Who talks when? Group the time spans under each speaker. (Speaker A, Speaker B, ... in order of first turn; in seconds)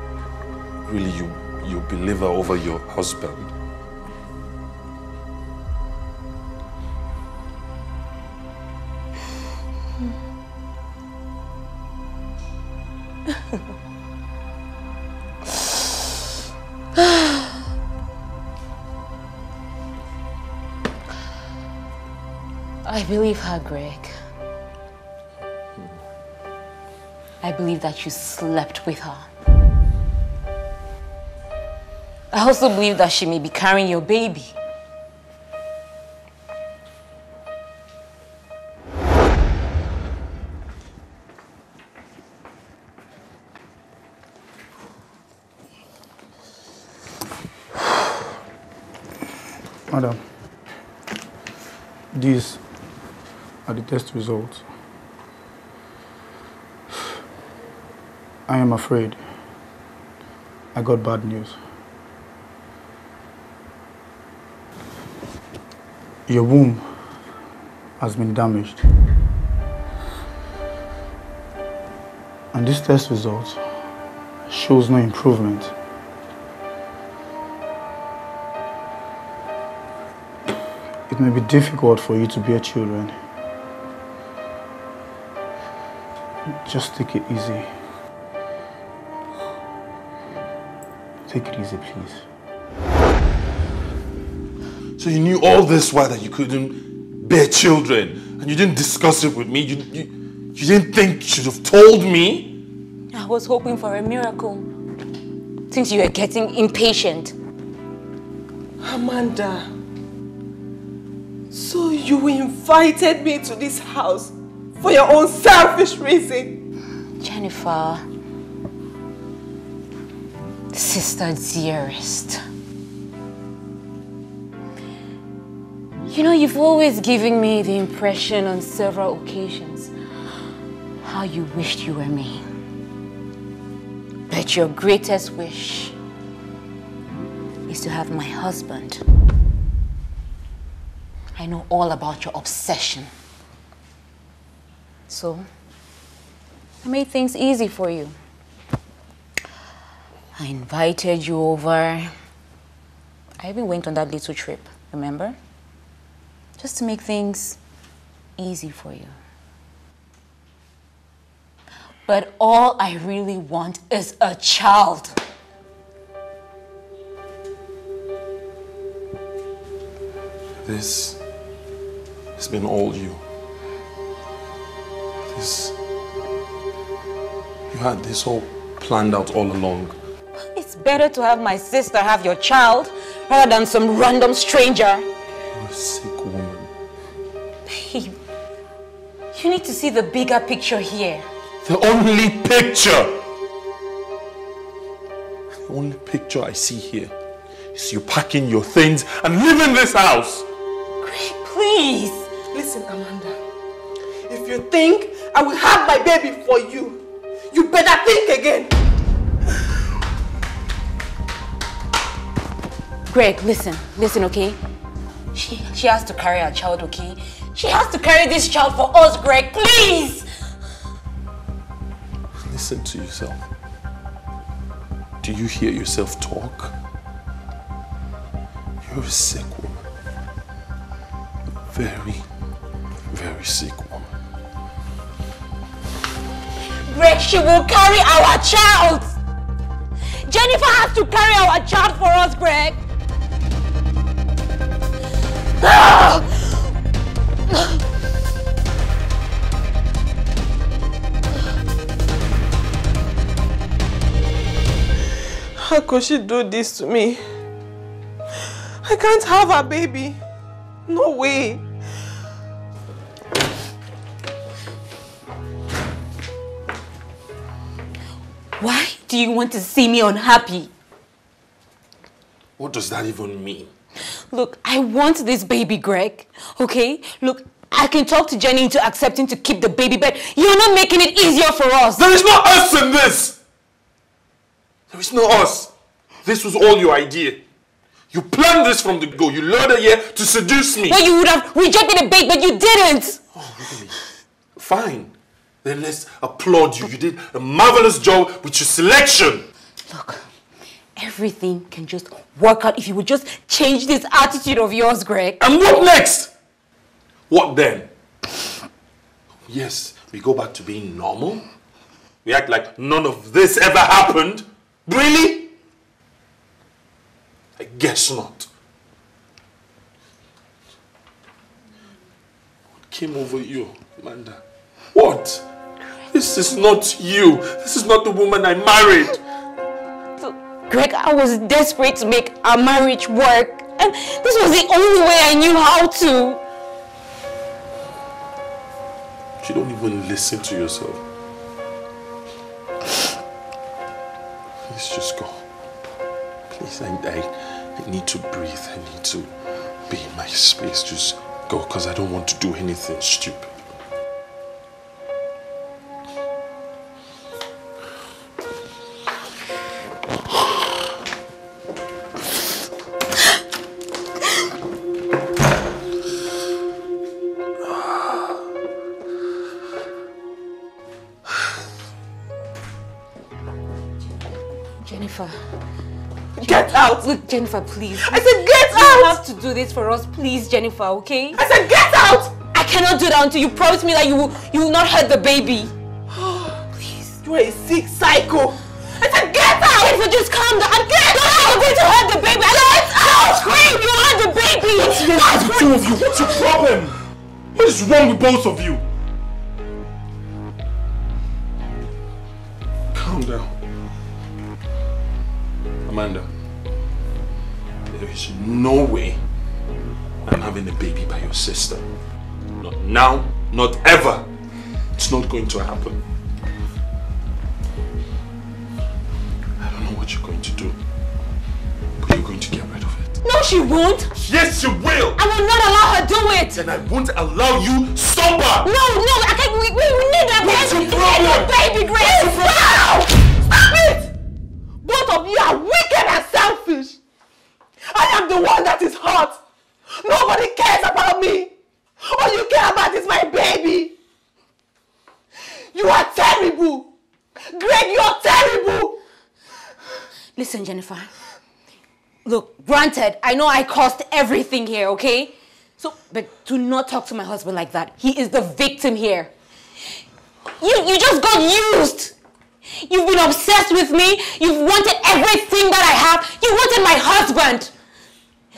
Speaker A: 0.8-3.5, 95.0-102.6, 170.6-171.2, 172.4-173.2, 175.3-175.8, 177.7-179.9, 185.5-186.7, 191.6-193.2, 195.7-197.1, 197.7-200.5, 222.3-223.5, 225.2-226.7, 228.8-229.8, 231.7-232.3, 233.1-234.1, 272.6-273.7, 281.9-283.4, 284.9-285.7, 286.2-287.4, 288.1-291.0, 293.3-294.0, 294.6-299.4, 305.4-306.3, 307.3-307.9, 309.5-311.5, 312.2-315.5, 317.6-318.5, 322.9-324.4, 324.9-325.4, 326.1-329.2, 339.4-341.0, 344.7-345.4, 346.5-349.3, 349.9-353.5, 394.9-397.0, 397.5-398.9, 402.9-403.6, 405.9-406.3, 407.9-409.2, 410.2-411.9, 412.6-414.3, 414.9-416.0, 419.6-420.8, 422.0-423.2, 424.1-425.2, 426.5-428.7, 430.4-432.8
Speaker B: 22.8-24.1, 27.4-29.3, 32.3-34.5, 103.1-104.7, 105.7-107.3, 117.2-118.0, 120.7-122.4, 126.1-129.9, 131.0-132.4, 134.3-135.9, 137.7-139.0, 141.4-143.1, 145.1-145.5, 146.8-148.2, 150.3-152.1, 153.4-155.4, 156.6-157.6, 158.4-159.2, 162.1-165.2, 180.4-185.1, 187.7-188.2, 189.3-191.3, 201.0-202.3, 213.1-214.6, 215.3-220.3, 236.7-239.2, 240.2-242.8, 245.6-246.2, 268.6-270.7, 274.1-282.1, 290.9-293.2, 299.9-300.3, 300.9-305.4, 330.2-336.4, 374.8-375.4, 376.4-381.4, 382.5-385.7, 386.7-387.2, 389.0-395.7, 423.2-424.1, 425.2-426.7, 428.6-432.8, 450.4-451.1, 452.2-459.3, 460.6-462.2, 462.7-467.7
Speaker C: 49.9-50.2, 52.1-52.6, 53.7-54.6, 58.5-59.2, 60.7-61.6, 66.3-66.9, 68.0-68.8, 72.5-73.6, 74.5-75.7, 81.1-83.2, 86.6-87.7, 91.3-92.2
Speaker D: 108.8-109.7, 111.5-116.6, 202.5-203.4, 204.3-208.7, 255.6-257.2, 258.4-260.2, 260.9-261.6, 376.4-377.1, 378.0-379.2, 381.4-382.4, 386.1-386.6, 387.2-388.6, 432.6-434.1, 434.8-437.0, 437.9-443.9, 445.4-446.9, 447.4-449.0